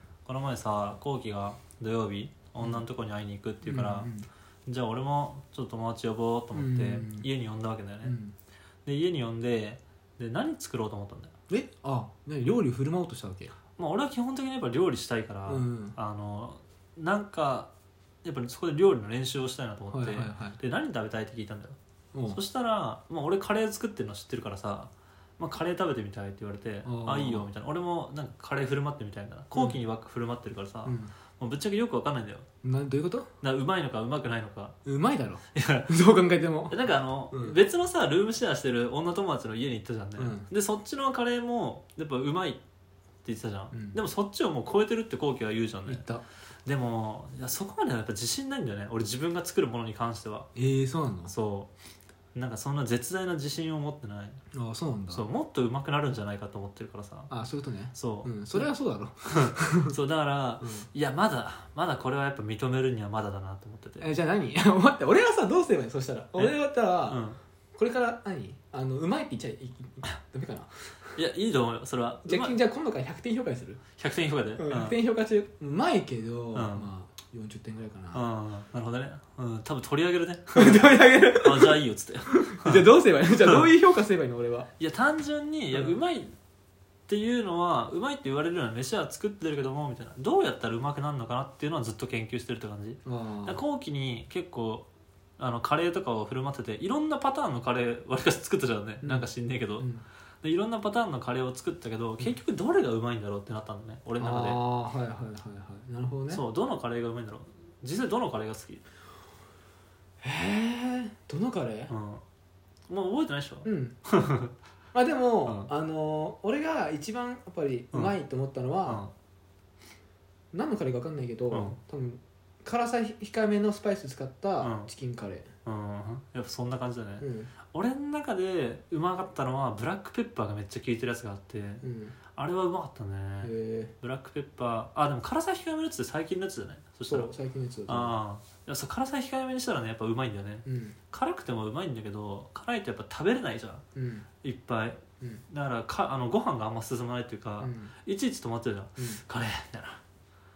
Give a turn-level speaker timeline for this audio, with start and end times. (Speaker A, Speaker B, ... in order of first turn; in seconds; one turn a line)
Speaker A: 0.2-4.1
Speaker B: 3.6-4.3
Speaker A: 4.7-8.2
Speaker B: 6.5-7.3
Speaker B: 8.0-8.3
Speaker A: 8.8-11.3
Speaker B: 11.5-13.5
Speaker A: 13.8-17.7
Speaker B: 15.5-16.0
Speaker A: 18.2-21.8
Speaker B: 19.9-20.6
Speaker B: 22.1-22.4
Speaker A: 22.3-32.5
Speaker B: 26.8-27.5
Speaker B: 30.8-31.1
Speaker B: 32.6-33.3
Speaker A: 33.4-34.8
Speaker B: 34.8-37.6
Speaker A: 35.5-35.9
Speaker A: 36.7-42.6
Speaker B: 40.2-40.5
Speaker A: 43.2-46.0
Speaker B: 43.7-44.0
Speaker B: 45.9-46.2
Speaker A: 46.6-50.5
Speaker B: 50.5-51.3
Speaker A: 51.3-51.7
Speaker A: 52.3-54.4
Speaker B: 54.5-55.3
Speaker A: 55.1-57.3
Speaker B: 57.3-59.9
Speaker A: 57.9-58.7
Speaker A: 59.3-64.1
Speaker B: 60.6-60.9
Speaker B: 64.0-67.2
Speaker A: 67.1-67.4
Speaker B: 67.8-71.2
Speaker A: 71.2-72.6
Speaker B: 72.2-73.8
Speaker A: 74.0-75.0
Speaker B: 74.6-78.2
Speaker A: 76.5-76.9
Speaker A: 78.1-82.9
Speaker B: 80.5-84.7
Speaker A: 84.8-86.3
Speaker A: 87.1-99.9
Speaker B: 93.0-93.6
Speaker B: 99.0-99.3
Speaker B: 99.8-100.0
Speaker A: 100.4-104.6
Speaker B: 104.2-106.4
Speaker A: 106.3-108.8
Speaker B: 110.2-111.9
Speaker A: 111.9-112.2
Speaker A: 112.9-114.5
Speaker B: 113.6-114.0
Speaker B: 114.9-119.0
Speaker A: 115.4-115.7
Speaker A: 118.8-119.1
Speaker B: 120.5-125.5
Speaker A: 121.5-121.8
Speaker A: 124.6-124.9
Speaker A: 125.6-131.8
Speaker B: 127.2-127.5
Speaker B: 131.8-132.2
Speaker A: 132.3-137.3
Speaker B: 133.4-133.9
Speaker B: 137.1-138.2
Speaker A: 137.9-143.8
Speaker B: 140.7-140.9
Speaker B: 143.9-144.3
Speaker A: 144.4-150.0
Speaker B: 147.6-147.9